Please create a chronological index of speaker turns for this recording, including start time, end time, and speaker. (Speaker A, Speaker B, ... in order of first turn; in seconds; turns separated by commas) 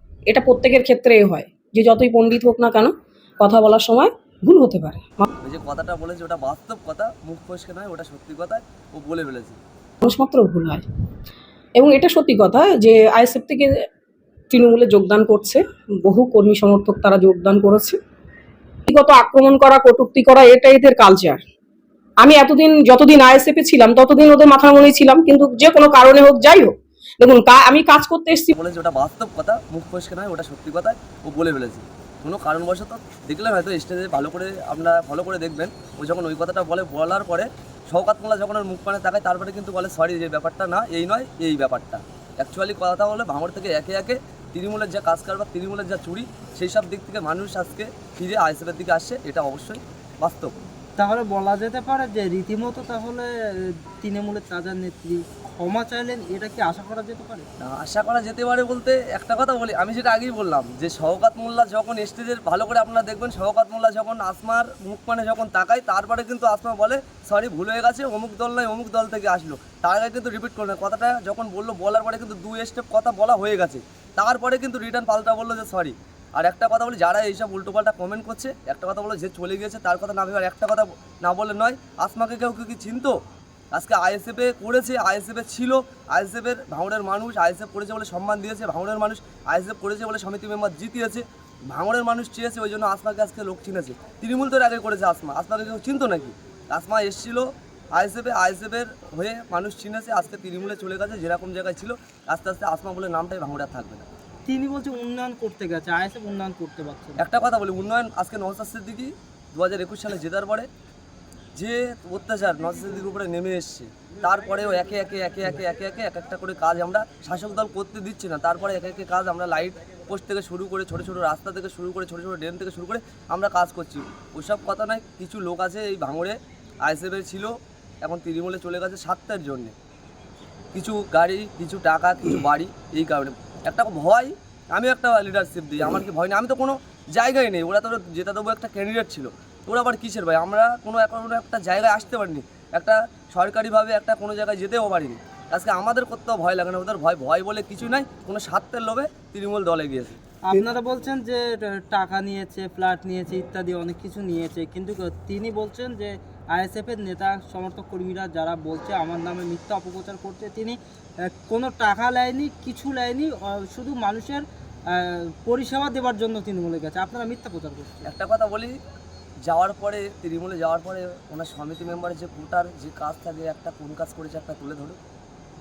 Speaker A: 0.3-5.2, Speaker B: 5.4-9.6, Speaker A: 10.0-10.8, Speaker A: 11.8-13.8, Speaker A: 14.5-18.0, Speaker A: 18.9-21.4, Speaker A: 22.2-28.5, Speaker B: 28.5-50.5, Speaker C: 51.0-57.5, Speaker B: 57.6-83.2, Speaker B: 83.7-104.1, Speaker C: 104.5-107.2, Speaker B: 107.2-110.7, Speaker B: 111.6-127.5, Speaker B: 128.0-129.7, Speaker B: 130.7-150.2, Speaker C: 150.4-168.1, Speaker B: 168.1-168.8, Speaker B: 169.4-175.0